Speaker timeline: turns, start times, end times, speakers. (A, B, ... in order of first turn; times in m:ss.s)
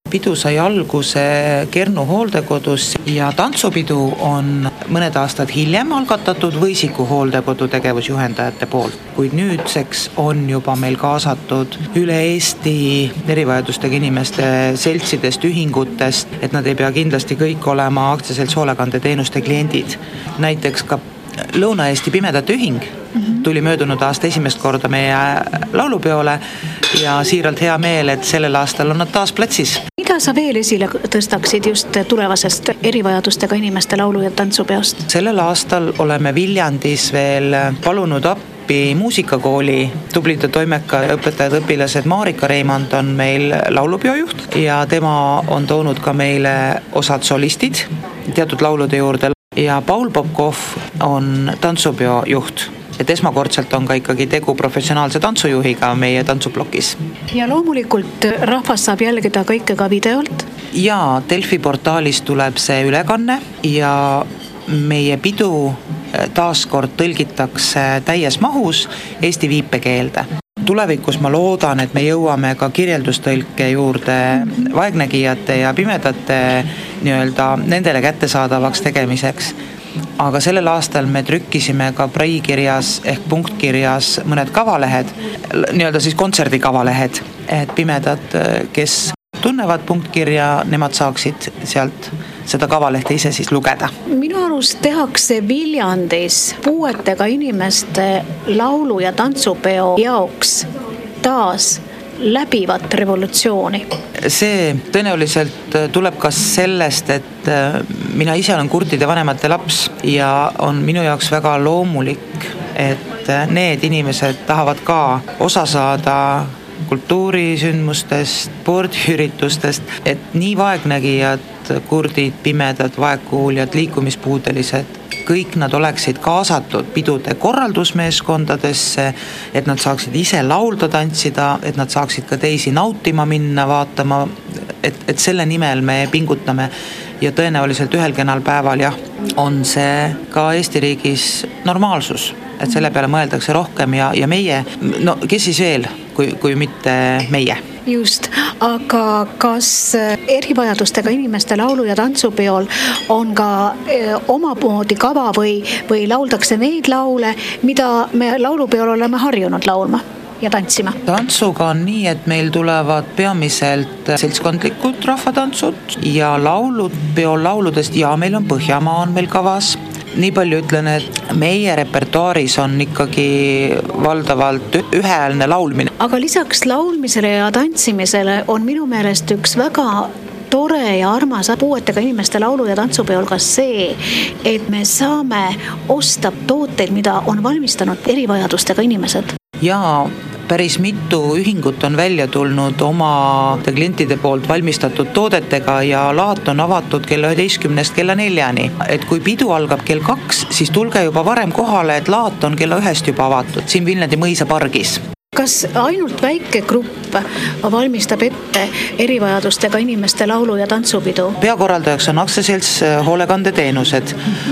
0:00.1-0:29.8 A
0:30.0-0:35.0 B
0:35.1-0:57.0 A
0:57.3-1:00.5 B
1:00.7-1:19.5 A
1:20.2-1:33.9 A
1:34.1-1:40.7 B
1:41.2-1:43.8 B
1:44.2-2:27.6 A
2:27.8-2:41.0 B
2:41.0-2:55.9 A
2:56.0-3:09.3 B
3:09.6-3:25.0 A
3:25.3-3:31.4 B
3:31.4-3:34.2 A